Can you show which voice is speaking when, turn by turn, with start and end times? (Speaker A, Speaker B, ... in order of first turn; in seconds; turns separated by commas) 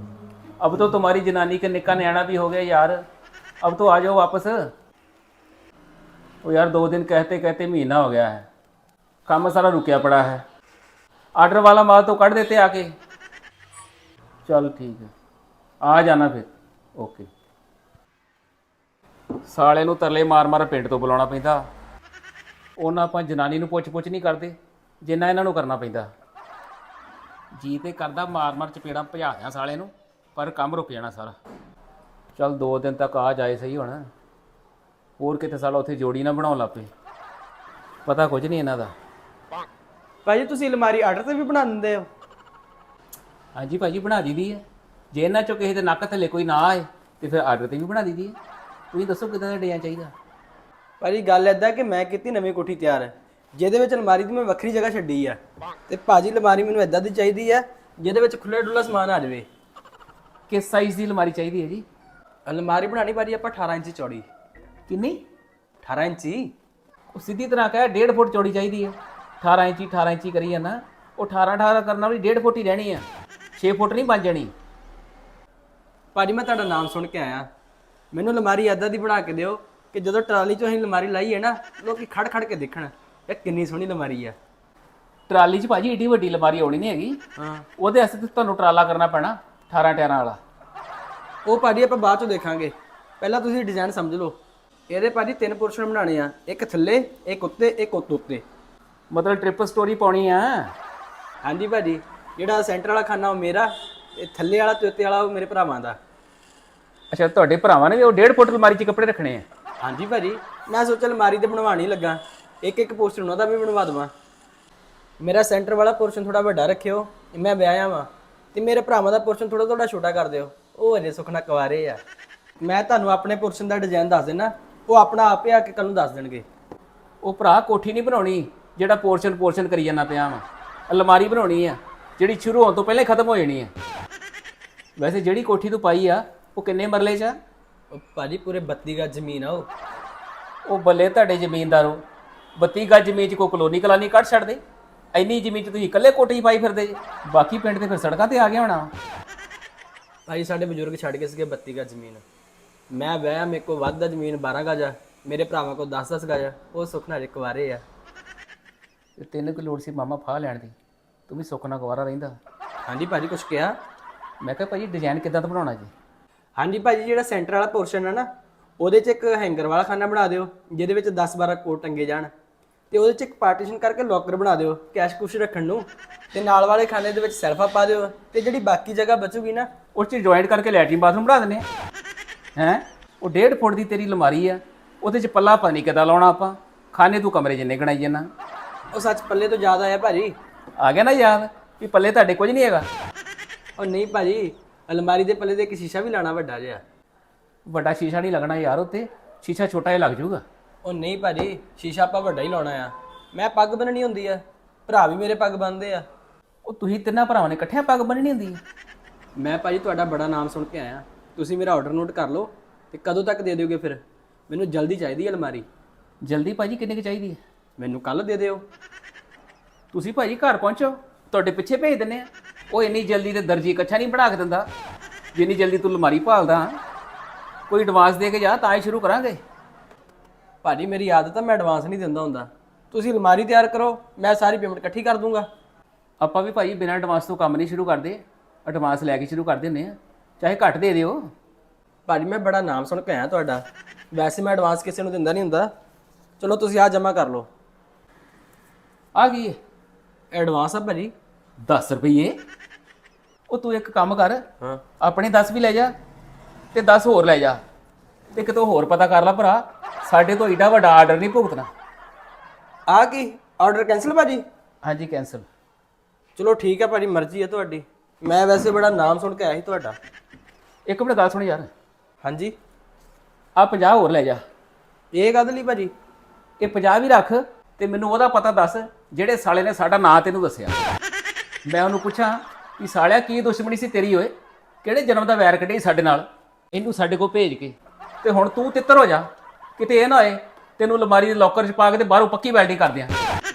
Speaker A: 0.6-3.0, Speaker A: 3.6-4.7, Speaker A: 6.4-8.5, Speaker A: 9.3-10.4, Speaker A: 11.4-12.9, Speaker A: 14.4-15.1, Speaker A: 15.8-17.3, Speaker A: 19.4-21.6, Speaker A: 22.8-26.1, Speaker A: 27.5-31.4, Speaker A: 32.4-34.0, Speaker A: 35.2-36.9, Speaker A: 38.0-38.9, Speaker B: 40.2-42.1, Speaker A: 43.5-48.4, Speaker A: 48.9-50.1, Speaker B: 51.0-59.5, Speaker A: 60.5-61.9, Speaker B: 62.5-64.3, Speaker A: 64.9-65.2, Speaker B: 65.8-66.5, Speaker A: 67.1-74.5, Speaker B: 76.1-77.5, Speaker B: 78.1-84.3, Speaker A: 85.3-87.2, Speaker B: 87.4-87.7, Speaker A: 87.8-90.4, Speaker B: 91.4-98.4, Speaker A: 99.1-100.7, Speaker B: 101.4-106.0, Speaker A: 107.1-109.4, Speaker B: 109.8-114.1, Speaker B: 115.2-122.0, Speaker B: 122.6-126.5, Speaker A: 127.2-133.7, Speaker A: 135.0-137.4, Speaker B: 137.9-139.7, Speaker A: 140.6-142.0, Speaker A: 142.6-144.6, Speaker A: 145.1-148.9, Speaker B: 150.3-152.2, Speaker B: 152.9-157.8, Speaker A: 159.2-160.7, Speaker A: 161.3-162.3, Speaker B: 162.8-163.7, Speaker A: 164.4-165.9, Speaker B: 166.6-168.3, Speaker B: 168.8-172.3, Speaker B: 172.9-179.7, Speaker A: 179.9-181.6, Speaker A: 182.6-188.3, Speaker B: 188.9-190.3, Speaker A: 190.8-192.9, Speaker B: 193.8-196.8, Speaker A: 197.7-200.4, Speaker B: 200.8-206.1, Speaker A: 206.6-208.6, Speaker B: 209.3-215.7, Speaker A: 216.2-217.4, Speaker B: 217.8-218.6, Speaker A: 219.9-224.7, Speaker A: 225.3-226.8, Speaker A: 227.7-229.4, Speaker B: 230.6-235.5, Speaker A: 236.2-241.2, Speaker B: 242.1-245.7, Speaker B: 246.4-247.5, Speaker A: 249.1-249.6, Speaker B: 250.3-251.1, Speaker A: 251.7-252.3, Speaker A: 253.5-254.4, Speaker A: 255.0-255.9, Speaker A: 256.7-257.6, Speaker A: 258.3-261.7, Speaker B: 262.9-264.4, Speaker A: 264.8-265.5, Speaker B: 266.4-270.0, Speaker A: 270.9-271.7, Speaker B: 272.2-272.5, Speaker A: 273.6-274.4, Speaker B: 275.1-275.9, Speaker A: 276.6-280.8, Speaker A: 281.6-284.3, Speaker A: 284.8-293.1